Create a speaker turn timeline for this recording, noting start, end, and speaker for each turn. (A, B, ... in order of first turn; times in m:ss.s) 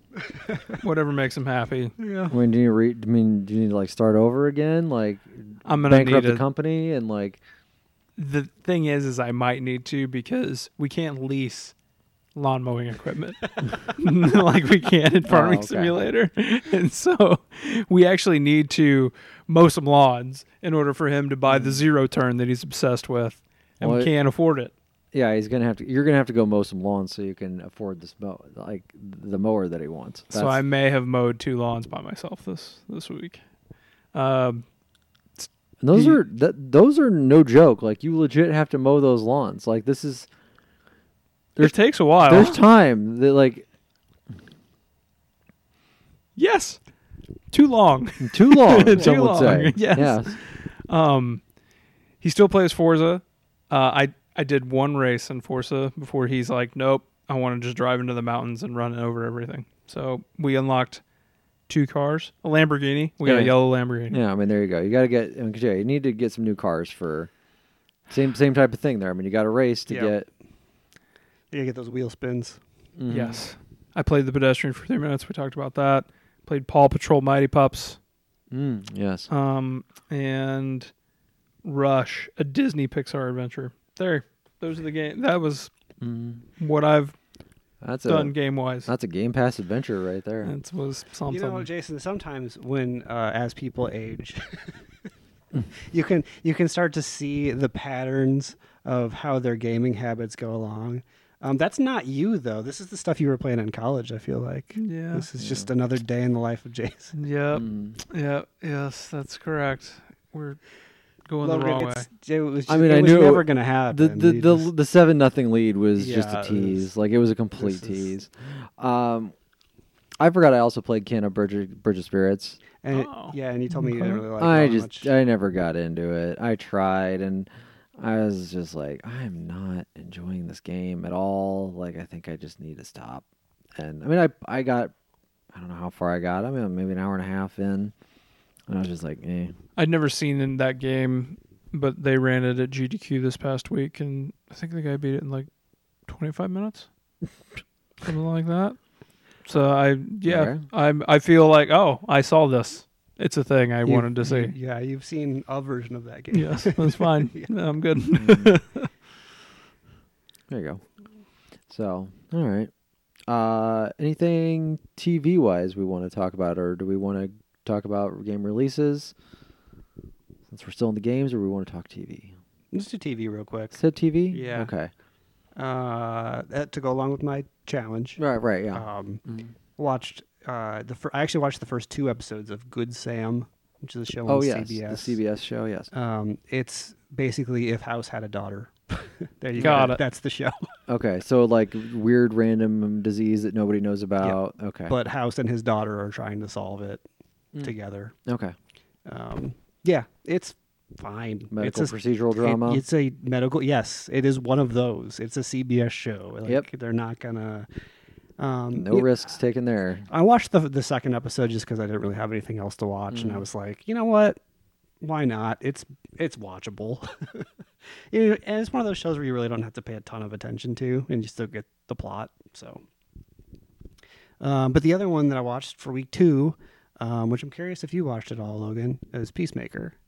0:00.5-0:00.8 A
0:00.8-0:02.0 B
0:02.0-0:02.4 A
0:02.3-0:07.4 C
0:05.6-0:06.4 B
0:08.2-0:11.7 B
0:12.4-0:24.7 B
0:15.3-0:16.0 C
0:21.5-0:21.8 C
0:23.8-0:24.1 C
0:25.1-0:30.6 C
0:30.3-0:33.4 B
0:34.1-0:34.6 B
0:35.4-0:36.0 B
0:35.8-0:40.3 C
0:41.6-0:43.7 C
0:41.6-0:42.6 B
0:46.4-0:46.8 B
0:47.5-0:51.4 B
0:48.2-0:50.4 C
0:52.2-1:01.0 B
1:01.7-1:04.2 B
1:03.2-1:03.6 C
1:04.1-1:07.3 C
1:08.1-1:10.3 C
1:09.9-1:10.2 A
1:11.5-1:12.6 A
1:13.0-1:13.4 C
1:13.1-1:18.0 B
1:18.5-1:19.3 C
1:19.3-1:20.9 B
1:21.6-1:25.7 B
1:26.0-1:26.4 C
1:26.6-1:27.2 B
1:27.8-1:30.5 C
1:28.1-1:28.9 B
1:30.4-1:31.7 B
1:31.3-1:34.8 A
1:35.7-1:47.2 A
1:44.8-1:45.3 B
1:45.4-1:45.7 C
1:47.1-1:50.6 B
1:47.5-1:48.0 C
1:51.3-1:52.1 B
1:51.4-1:54.7 A
1:52.7-1:59.3 C
1:56.0-1:56.9 A
1:57.6-1:58.1 A
2:00.2-2:02.6 C
2:02.8-2:05.1 A
2:02.9-2:03.4 B
2:03.9-2:13.2 C
2:13.8-2:14.9 C
2:15.5-2:17.9 C
2:18.7-2:19.6 C
2:19.8-2:25.5 B
2:26.1-2:26.9 B
2:28.0-2:28.8 B
2:29.4-2:34.5 B
2:30.3-2:30.6 C
2:33.8-2:37.5 A
2:36.3-2:38.9 B
2:38.2-2:38.6 C
2:40.5-2:40.8 C
2:41.7-2:42.7 C
2:43.3-2:49.1 C
2:50.5-2:52.4 C
2:52.7-2:54.7 A
2:53.7-2:54.9 C
2:55.6-2:58.2 A
2:58.2-2:59.5 C
2:58.7-2:59.2 A
2:59.8-3:05.2 A
3:04.3-3:05.9 C
3:05.9-3:10.6 A
3:09.6-3:10.0 C
3:09.6-3:10.0 B
3:10.9-3:14.9 C
3:14.9-3:17.0 A
3:17.6-3:18.1 A
3:18.3-3:18.6 C
3:19.1-3:27.7 A
3:21.5-3:22.8 C
3:28.4-3:29.1 A
3:28.7-3:30.1 C
3:30.1-3:34.4 A
3:33.1-3:33.4 C
3:35.0-3:37.5 A
3:38.1-3:42.8 A
3:44.4-3:50.0 A